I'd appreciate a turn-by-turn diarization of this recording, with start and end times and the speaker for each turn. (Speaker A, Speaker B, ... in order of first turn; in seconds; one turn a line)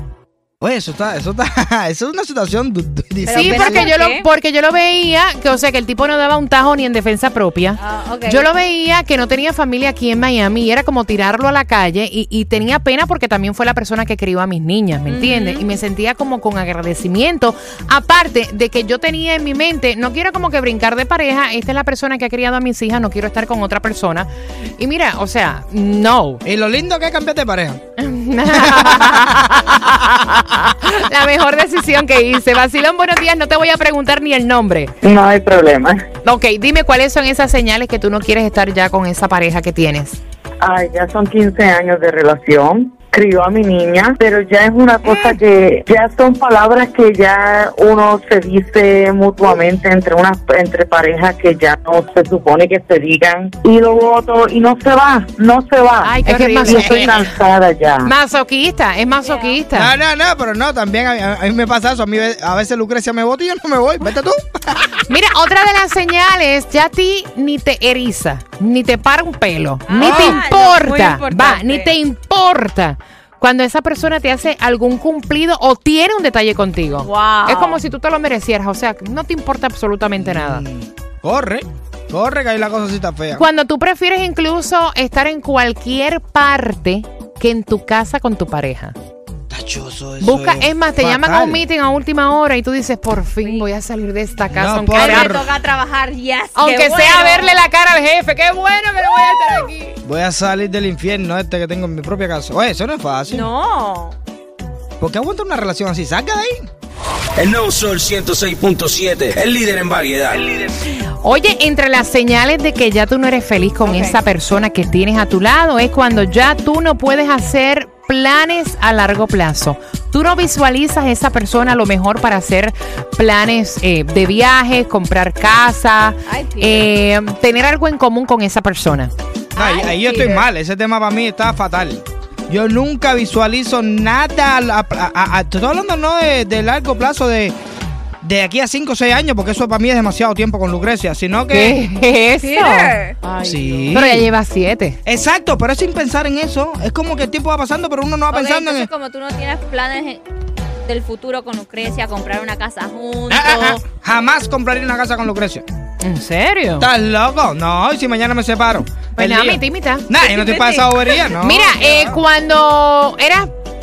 Speaker A: 0.6-3.9
Speaker B: 3.2-4.2
Speaker C: 3.3-26.4
Speaker B: 7.8-8.5
Speaker B: 15.1-15.7
Speaker A: 26.4-27.8
Speaker C: 28.0-34.9
Speaker A: 28.5-29.5
Speaker D: 35.0-36.1
Speaker C: 36.2-40.2
Speaker D: 40.6-58.1
Speaker C: 45.1-45.4
Speaker C: 56.0-57.3
Speaker B: 56.7-57.0
Speaker C: 58.0-59.9
Speaker B: 59.2-59.6
Speaker A: 59.7-65.0
Speaker C: 65.1-80.7
Speaker B: 69.8-72.0
Speaker A: 70.0-70.4
Speaker B: 77.0-77.8
Speaker A: 80.2-83.5
Speaker C: 83.3-89.0
Speaker A: 89.5-91.6
Speaker C: 90.2-95.4
Speaker A: 94.5-95.5
Speaker B: 94.9-97.5
Speaker C: 96.5-100.0
Speaker A: 100.0-103.5
Speaker B: 103.3-104.2
Speaker A: 105.0-106.7
Speaker E: 107.4-110.4
Speaker C: 111.0-129.1
Speaker B: 113.8-114.2
Speaker B: 126.3-126.8
Speaker B: 129.5-130.4
Speaker A: 129.5-137.6
Speaker A: 138.2-141.8
Speaker C: 141.5-142.9
Speaker B: 142.4-143.8
Speaker A: 143.4-144.3
Speaker C: 143.9-145.0
Speaker A: 145.0-148.9
Speaker B: 148.3-150.2
Speaker B: 150.8-153.8
Speaker A: 153.3-155.6
Speaker C: 156.0-156.9
Speaker A: 156.8-162.2
Speaker C: 159.2-163.5